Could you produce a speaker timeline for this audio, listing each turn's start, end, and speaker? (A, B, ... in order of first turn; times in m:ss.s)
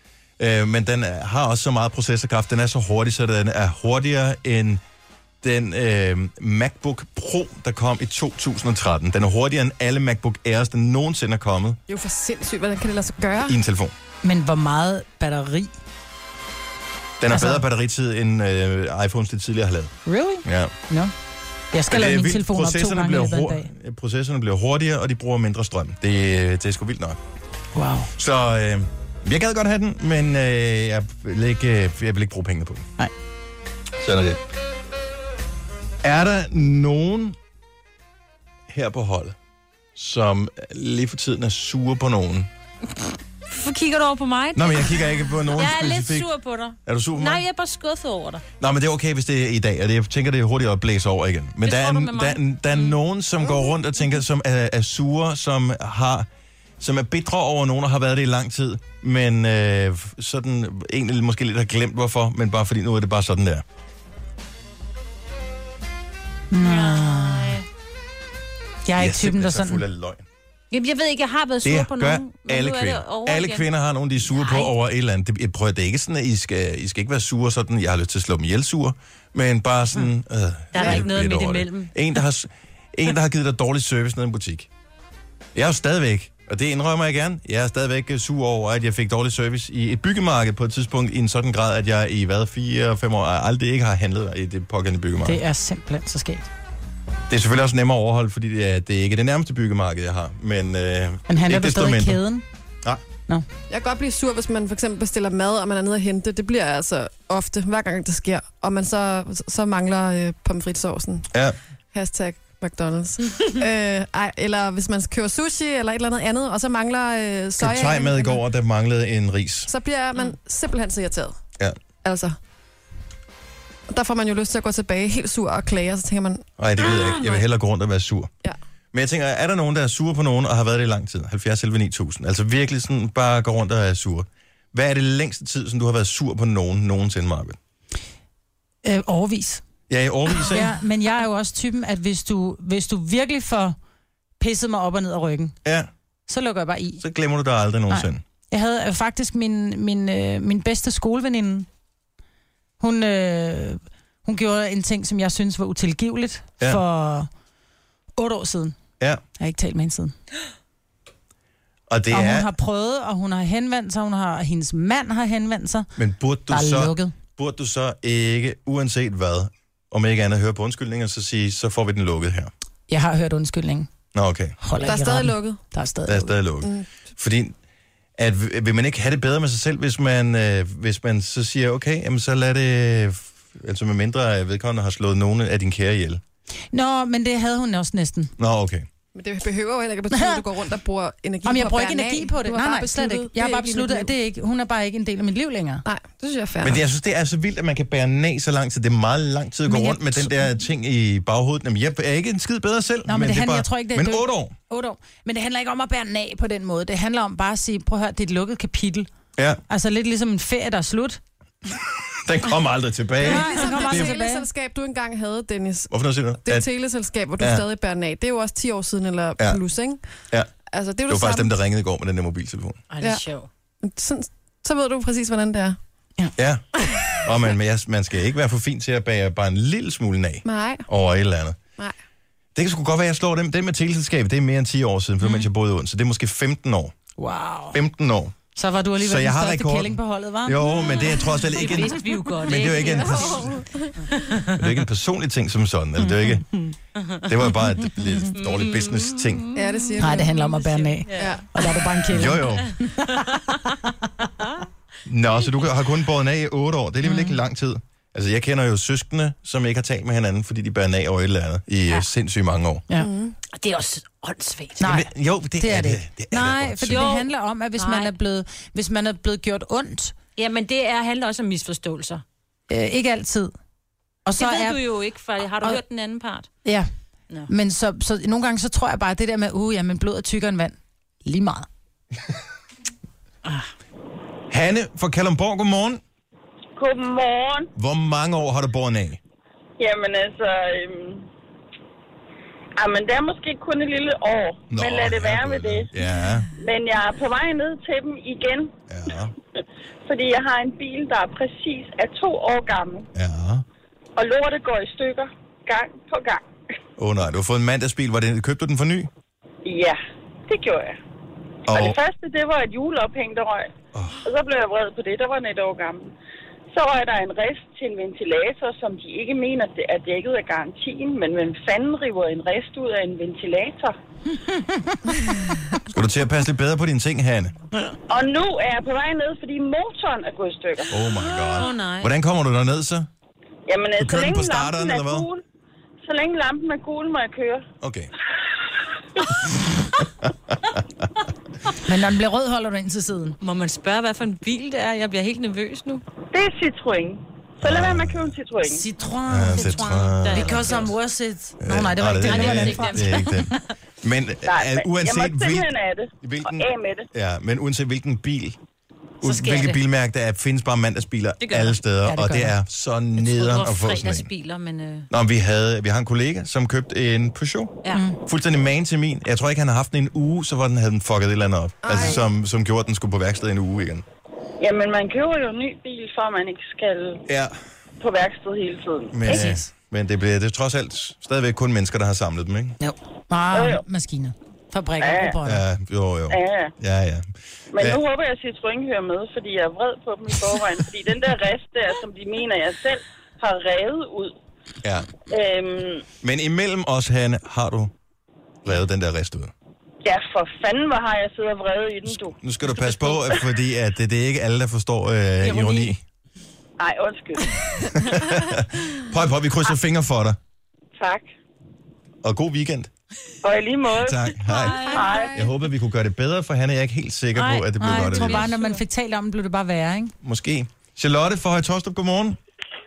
0:00.4-0:04.8 A
0:05.4-0:11.8 A
0:11.9-0:13.6 B
0:13.4-0:13.9 A
0:14.2-0:15.7 C
0:17.2-0:20.7 A
0:17.3-0:17.6 C
0:20.0-0:21.1 C
0:21.7-0:23.7 C
0:21.9-0:27.2 A
0:27.7-0:28.1 C
0:28.1-0:32.9 A
0:34.0-0:34.4 A
0:36.0-0:37.4 A
0:38.7-0:39.4 A
0:40.0-0:42.5 A
0:43.5-0:48.4 D
0:44.5-0:46.3 A
0:46.8-0:47.4 A
0:48.6-0:56.3 A
0:51.6-0:53.0 D
0:56.8-1:03.6 A
1:06.5-1:07.6 C
1:06.6-1:07.6 D
1:08.8-1:09.8 C
1:09.0-1:10.2 A
1:10.7-1:13.6 D
1:11.6-1:24.7 A
1:14.3-1:14.7 D
1:20.7-1:21.9 D
1:25.5-1:35.4 A
1:35.2-1:36.5 C
1:37.3-1:42.2 A
1:41.3-1:42.4 C
1:43.7-1:51.3 B
1:51.9-1:58.4 B
1:57.6-1:59.7 A
1:59.7-2:01.4 B
2:02.0-2:02.3 B
2:03.9-2:06.5 B
2:06.6-2:08.3 A
2:08.9-2:17.6 A
2:18.8-2:19.6 C
2:19.9-2:20.7 A
2:20.4-2:23.8 C
2:24.4-2:25.5 C
2:25.6-2:25.9 A
2:26.3-2:27.0 C
2:27.0-2:28.2 A
2:27.9-2:31.7 C
2:32.8-2:37.3 C
2:38.2-2:38.8 C
2:39.4-2:40.1 C
2:41.9-2:42.5 A
2:42.1-2:45.9 C
2:46.0-2:52.5 A
2:46.5-2:47.1 C
2:52.9-2:53.9 C
2:54.1-2:54.6 A
2:54.6-2:56.3 C
2:54.8-2:55.6 B
2:56.0-2:57.5 A
2:58.2-3:06.2 A
3:06.7-3:08.3 C
3:08.4-3:08.9 A
3:09.1-3:14.1 B
3:10.1-3:10.4 C
3:11.4-3:15.8 C
3:15.8-3:16.8 B
3:16.6-3:24.5 A
3:19.7-3:20.4 C
3:23.1-3:29.1 C
3:29.7-3:31.2 C
3:32.1-3:34.1 A
3:33.2-3:35.9 B
3:33.2-3:34.5 C
3:35.9-3:36.7 A
3:36.4-3:40.0 B
3:37.4-3:37.6 A
3:40.7-3:41.5 B
3:41.1-3:42.8 A
3:42.9-3:43.5 D
3:43.8-3:45.8 B
3:46.4-3:51.6 A
3:50.4-3:50.8 B
3:52.5-3:56.9 A
3:57.2-3:57.8 C
3:57.7-3:58.3 A
3:58.6-4:01.7 C
3:59.0-4:03.6 A
4:01.5-4:03.5 D
4:02.9-4:03.9 B
4:04.1-4:04.5 D
4:04.5-4:06.4 A
4:06.0-4:06.7 C
4:07.2-4:09.4 A
4:08.3-4:12.1 D
4:09.5-4:10.4 B
4:10.0-4:13.6 C
4:11.2-4:11.5 B
4:12.1-4:12.7 A
4:13.0-4:13.6 D
4:15.0-4:22.8 A
4:17.0-4:17.4 C
4:23.0-4:23.4 B
4:23.5-4:24.8 D
4:24.8-4:25.1 C
4:24.8-4:27.2 A
4:25.6-4:30.2 C
4:26.8-4:28.1 D
4:30.3-4:32.2 D
4:32.7-4:33.5 C
4:34.2-4:34.8 C
4:34.4-4:36.5 D
4:37.5-4:41.7 C
4:44.5-4:46.0 A
4:46.8-4:47.7 E
4:47.7-4:49.2 A
4:49.8-4:51.2 E
4:52.8-4:55.9 E
4:54.7-4:56.5 A
4:56.5-4:58.7 E
4:58.9-4:59.3 A
5:00.0-5:03.1 E
5:03.1-5:03.6 A
5:04.2-5:06.4 E
5:07.0-5:09.1 A
5:09.6-5:11.0 E
5:11.7-5:12.0 A
5:11.7-5:13.7 E
5:13.9-5:14.2 A
5:14.2-5:16.1 E
5:16.7-5:23.9 E
5:25.9-5:27.5 A
5:28.1-5:31.0 E
5:30.9-5:33.1 A
5:31.4-5:32.1 D
5:33.7-5:35.4 E
5:34.0-5:35.3 A
5:36.0-5:37.6 E
5:37.8-5:38.1 A
5:41.8-5:43.4 C
5:43.4-5:46.0 D
5:46.3-5:48.8 E
5:47.6-5:48.3 A
5:48.6-5:53.3 C
5:49.3-5:50.8 A
5:49.5-5:51.0 D
5:51.6-5:58.6 A
5:52.2-5:53.6 D
5:54.4-5:57.1 E
5:59.2-6:04.3 A
5:59.2-5:59.8 D
6:01.4-6:01.8 D
6:02.0-6:02.5 C
6:03.2-6:05.1 D
6:05.1-6:14.0 A
6:07.8-6:08.1 D
6:07.9-6:08.2 C
6:11.8-6:12.2 B
6:14.6-6:17.2 E
6:17.3-6:17.6 A
6:18.0-6:19.4 E
6:19.1-6:22.8 A
6:19.3-6:19.7 C
6:22.8-6:25.6 C
6:23.5-6:23.8 E
6:25.0-6:25.4 E
6:25.4-6:28.0 A
6:26.3-6:26.7 E
6:27.7-6:34.3 E
6:34.8-6:35.1 A
6:35.3-6:36.1 E
6:36.2-6:37.9 A
6:38.6-6:39.5 A
6:40.0-6:43.5 E
6:42.0-6:46.0 A
6:45.4-6:45.8 C
6:46.8-6:47.9 E
6:47.9-6:50.4 A
6:51.0-6:51.3 E
6:52.2-6:52.9 A
6:53.4-6:54.3 E
6:53.9-6:58.5 A
6:54.5-6:55.2 D
6:57.3-6:58.8 D
6:57.8-7:00.1 C
7:00.2-7:02.4 A